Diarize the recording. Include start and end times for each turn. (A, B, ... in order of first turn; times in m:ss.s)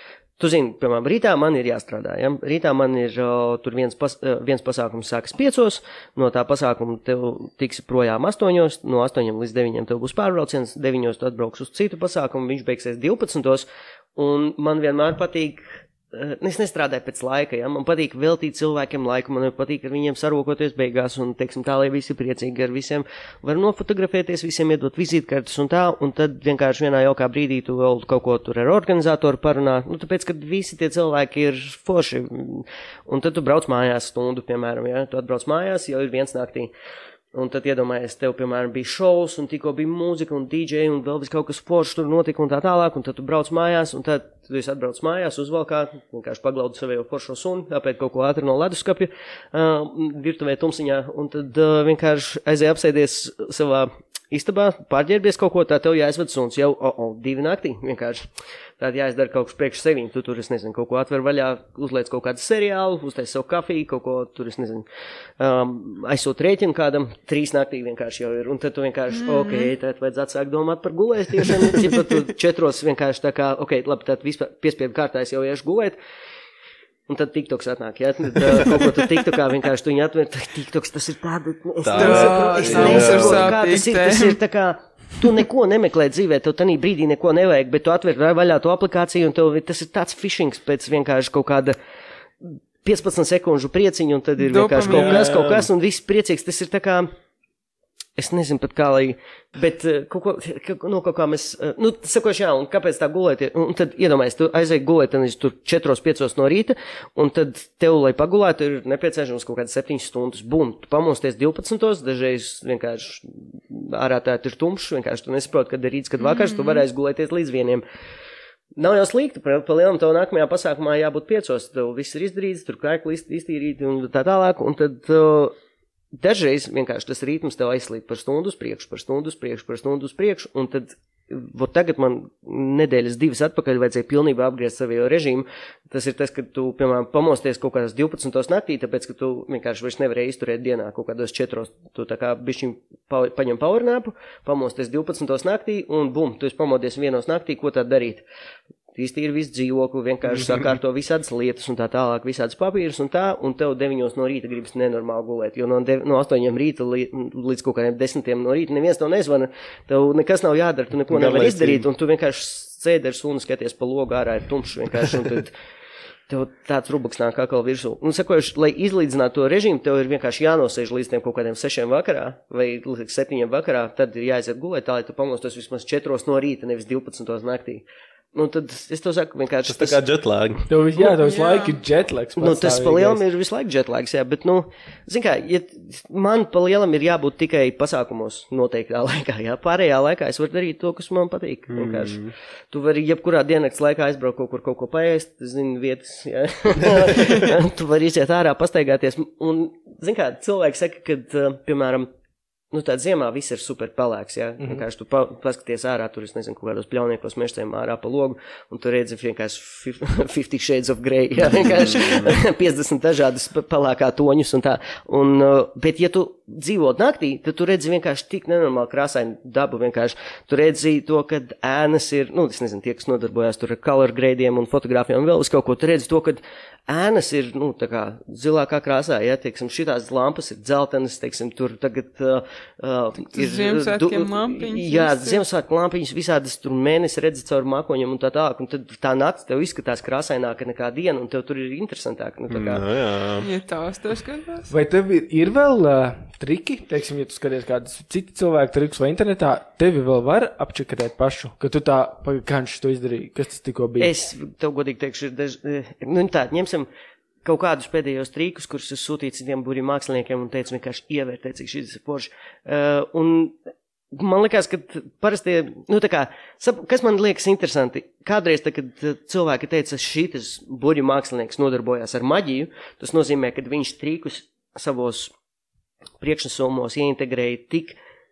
0:00.4-0:36.7 A
0:37.3-0:58.3 A
0:58.8-1:04.9 A
1:05.4-1:16.0 A
1:09.1-1:09.7 B
1:17.1-1:31.8 A
1:21.8-1:23.6 C
1:21.9-1:24.4 B
1:32.4-1:37.1 A
1:34.4-1:35.3 B
1:34.9-1:35.7 C
1:38.2-1:57.8 A
1:56.2-1:56.9 B
1:58.8-2:05.5 A
2:06.2-2:28.2 A
2:29.0-2:45.5 A
2:41.1-2:41.9 C
2:46.3-3:00.0 A
2:59.7-3:00.7 C
3:00.7-3:03.2 D
3:01.2-3:01.8 B
3:02.4-3:22.1 A
3:11.7-3:12.3 C
3:22.7-4:02.8 A
3:31.6-3:32.3 C
3:53.3-3:55.4 B
4:02.5-4:03.5 C
4:03.4-4:04.7 B
4:04.7-4:14.1 D
4:14.0-4:16.9 A
4:17.4-4:23.6 A
4:24.1-4:35.3 A
4:36.2-4:38.0 A